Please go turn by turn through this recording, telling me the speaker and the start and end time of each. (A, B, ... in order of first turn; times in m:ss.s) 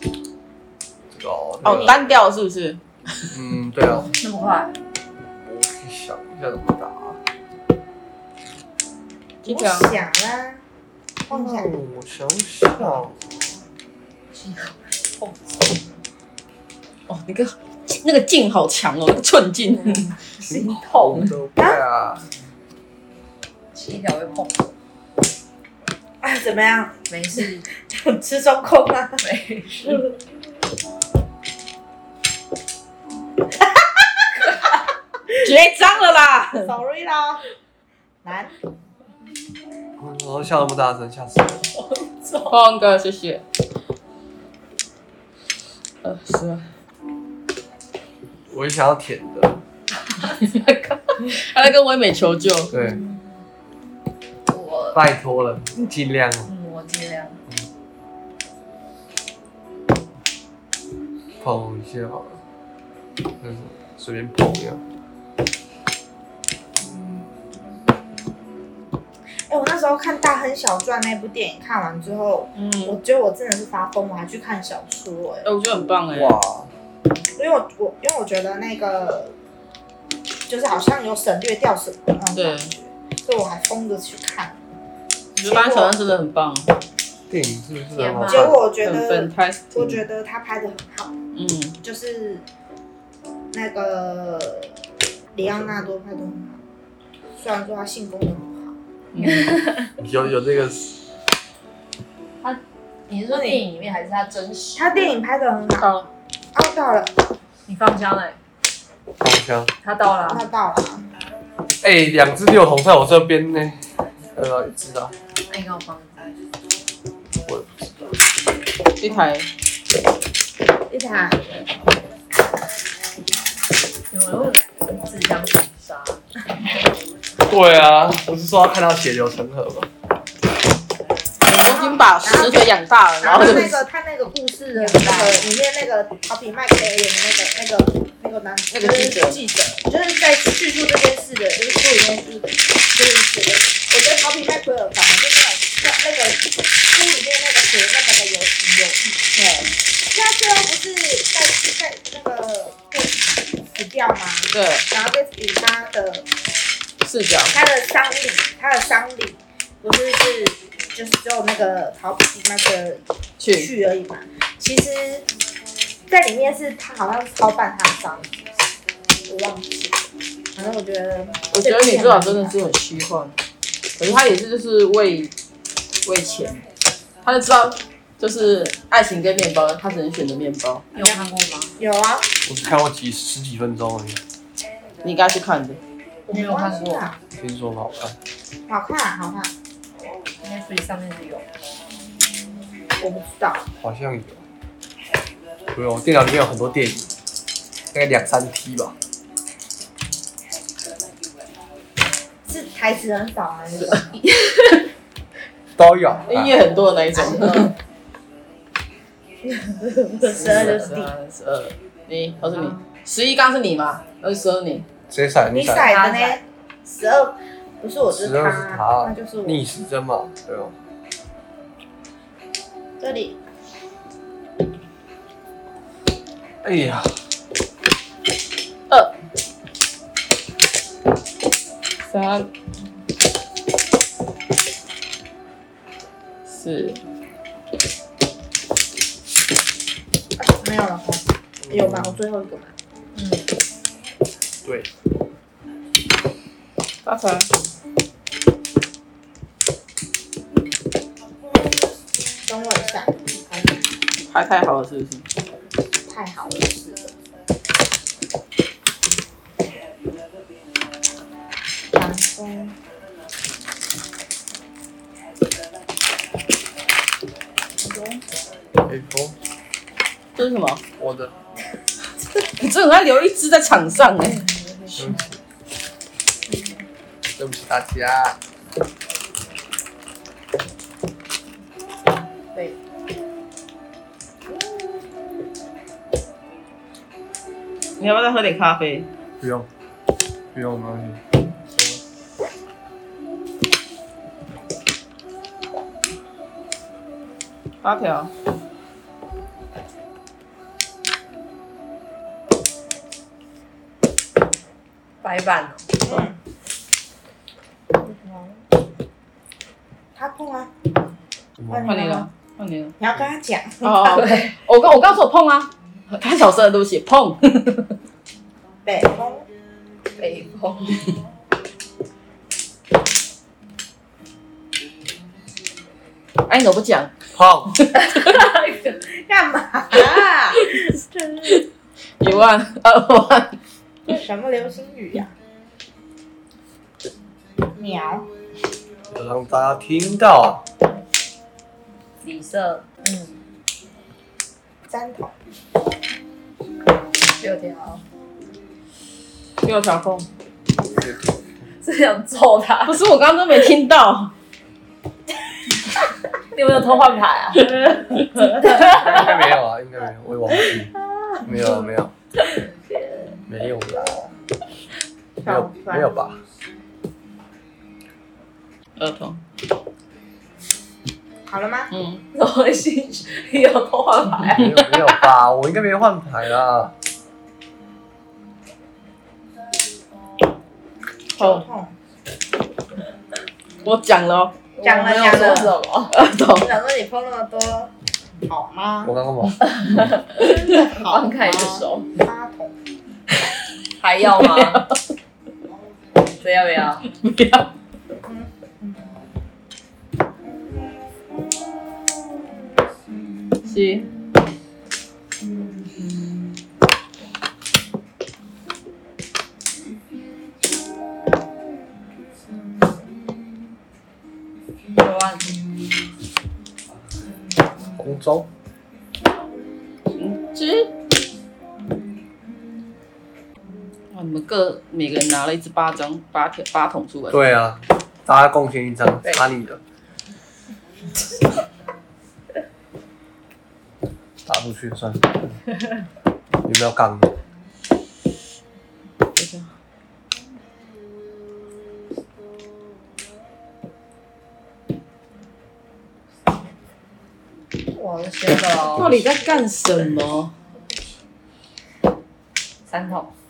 0:01.1-0:02.1 A
0:01.6-0:03.3 B
0:03.3-0:04.1 A
0:04.0-0:04.7 C
0:05.4-0:07.2 A
0:09.4-0:09.9 B
0:09.4-0:10.6 D
0:11.3-0:11.7 D
0:11.3-0:13.4 A
0:14.3-0:15.8 C
0:17.1-0:20.1 B
0:20.4-0:21.3 C
0:20.4-0:22.3 A
0:23.7-0:24.7 C
0:26.2-0:29.2 D
0:27.1-0:27.6 C
0:29.2-0:30.1 C
0:35.4-0:36.7 B
0:36.6-0:37.4 D
0:38.2-0:38.5 D
0:40.0-0:41.6 A
0:41.7-0:42.6 C
0:42.5-0:43.4 B
0:46.0-0:46.6 B
0:48.5-0:49.6 A
0:50.2-0:51.3 C
0:51.2-0:52.7 B
0:52.7-0:53.0 A
0:54.5-0:55.0 C
0:54.9-0:56.5 A
0:56.5-0:57.4 C
1:01.4-1:02.4 A
1:03.4-1:04.8 A
1:09.5-1:15.5 D
1:12.6-1:13.0 B
1:15.4-1:16.4 B
1:16.1-1:16.7 A
1:17.4-1:19.4 D
1:20.5-1:24.6 D
1:22.4-1:22.7 B
1:25.4-1:26.7 B
1:25.4-1:26.0 D
1:27.3-1:28.6 A
1:28.0-1:28.6 C
1:28.2-1:31.2 D
1:28.8-1:30.0 B
1:31.3-1:31.8 B
1:31.8-1:32.4 D
1:33.5-1:34.7 D
1:35.3-1:36.6 D
1:35.4-1:35.8 A
1:37.4-1:38.7 D
1:39.1-1:39.6 B
1:39.2-1:39.9 C
1:40.0-1:41.0 A
1:42.4-1:45.1 C
1:43.3-1:43.6 D
1:44.8-1:45.9 D
1:45.8-1:46.1 B
1:46.5-1:47.2 D
1:47.7-1:48.4 C
1:49.2-1:49.7 A
1:49.8-1:50.5 C
1:50.3-1:51.1 D
1:51.8-1:53.8 A
1:54.4-1:55.1 A
1:55.5-1:56.3 C
1:57.5-1:58.2 A
1:59.0-1:59.5 B
2:00.9-2:01.5 D
2:04.1-2:06.2 C
2:07.4-2:09.9 A
2:11.5-2:13.8 B
2:11.5-2:29.3 D
2:14.8-2:15.5 C
2:18.7-2:19.4 B
2:29.4-2:29.7 B
2:30.1-2:36.3 D
2:34.5-2:34.9 B
2:37.0-2:37.5 B
2:37.5-2:45.3 D
2:43.4-2:43.7 B
2:46.1-2:48.4 D
2:49.3-2:50.0 D
2:50.6-2:52.6 D
2:51.5-2:53.4 B
2:54.0-2:55.3 B
2:56.0-2:56.6 B
2:57.2-3:00.9 B
3:01.0-3:01.7 C
3:01.8-3:02.3 D
3:02.4-3:04.2 A
3:05.0-3:05.8 B
3:06.3-3:07.2 D
3:06.3-3:07.1 C
3:07.4-3:08.2 A
3:08.7-3:09.5 D
3:10.4-3:11.5 C
3:13.0-3:13.7 D
3:13.8-3:14.4 A
3:15.7-3:17.1 A
3:17.9-3:19.0 A
3:22.5-3:24.1 D
3:24.1-3:24.9 C
3:25.8-3:26.6 A
3:26.3-3:27.7 B
3:27.2-3:27.7 C
3:29.5-3:31.1 D
3:30.3-3:34.9 B
3:30.4-3:30.8 C
3:35.1-3:35.9 A
3:35.5-3:39.6 D
3:35.8-3:36.4 C
3:38.1-3:40.7 A
3:43.0-3:43.4 D
3:46.6-3:47.2 A
3:52.0-3:52.5 B
3:56.5-3:57.0 B
4:00.4-4:02.7 D
4:01.6-4:02.2 A
4:03.2-4:03.5 C
4:04.6-4:04.9 A
4:07.0-4:07.5 B
4:12.5-4:13.8 D
4:14.3-4:15.3 B
4:16.1-4:17.1 D
4:21.9-4:22.8 D
4:27.8-4:28.2 D
4:28.8-4:29.4 A
4:30.4-4:30.8 B
4:31.0-4:31.3 A
4:32.6-4:34.4 B
4:35.0-4:35.3 A
4:37.3-4:38.4 A
4:48.0-4:49.1 B
4:49.4-4:49.7 A
4:50.5-4:52.0 A
4:57.8-4:58.3 B
5:05.2-5:05.9 C
5:06.0-5:06.4 D
5:08.0-5:08.6 C
5:10.2-5:10.7 D
5:11.6-5:11.9 A
5:11.7-5:12.3 D
5:11.8-5:12.9 B
5:13.0-5:14.2 D
5:13.8-5:17.9 B
5:14.1-5:14.6 C
5:18.8-5:19.5 D
5:20.2-5:21.1 C
5:26.5-5:27.2 B
5:27.3-5:27.8 A
5:27.7-5:28.4 B
5:28.0-5:29.0 C
5:29.2-5:31.6 D
5:30.6-5:30.9 B
5:32.2-5:33.6 B
5:34.1-5:35.3 D
5:37.8-5:38.3 D
5:39.1-5:40.6 A
5:42.2-5:43.4 C
5:44.9-5:45.4 D
5:47.4-5:48.0 C
5:49.6-5:50.3 B
5:50.9-5:51.5 A
5:51.8-5:53.0 C
5:52.9-5:54.3 B
5:56.5-5:57.8 C
5:57.6-5:58.0 B
5:58.4-5:59.4 C
5:58.8-6:02.1 A
6:01.1-6:01.5 D
6:02.4-6:03.4 C
6:03.5-6:04.3 A
6:05.4-6:06.1 D
6:05.4-6:06.4 A
6:09.0-6:09.4 B
6:11.5-6:11.9 D
6:11.9-6:12.2 B
6:12.3-6:14.8 C
6:14.5-6:17.0 A
6:14.8-6:15.1 B
6:21.3-6:22.0 D
6:21.4-6:21.6 B
6:23.8-6:24.6 B
6:24.8-6:26.2 C
6:24.8-6:25.8 D
6:26.1-6:26.7 B
6:26.6-6:27.9 D
6:28.5-6:29.1 D
6:29.0-6:30.1 A
6:29.6-6:32.1 C
6:30.4-6:32.7 D
6:34.0-6:34.8 C
6:34.3-6:35.0 B
6:36.4-6:37.1 C
6:37.1-6:37.7 B
6:38.2-6:39.2 D
6:40.4-6:41.0 D
6:43.7-6:44.1 B
6:54.9-6:55.6 C
6:58.0-6:58.5 A
7:00.2-7:00.9 B
7:04.1-7:07.4 B
7:07.3-7:09.8 A
7:14.5-7:15.6 A
7:16.6-7:17.3 A
7:19.4-7:19.7 B
7:27.9-7:29.2 C
7:28.9-7:30.5 B
7:28.9-7:29.5 A
7:32.9-7:33.3 C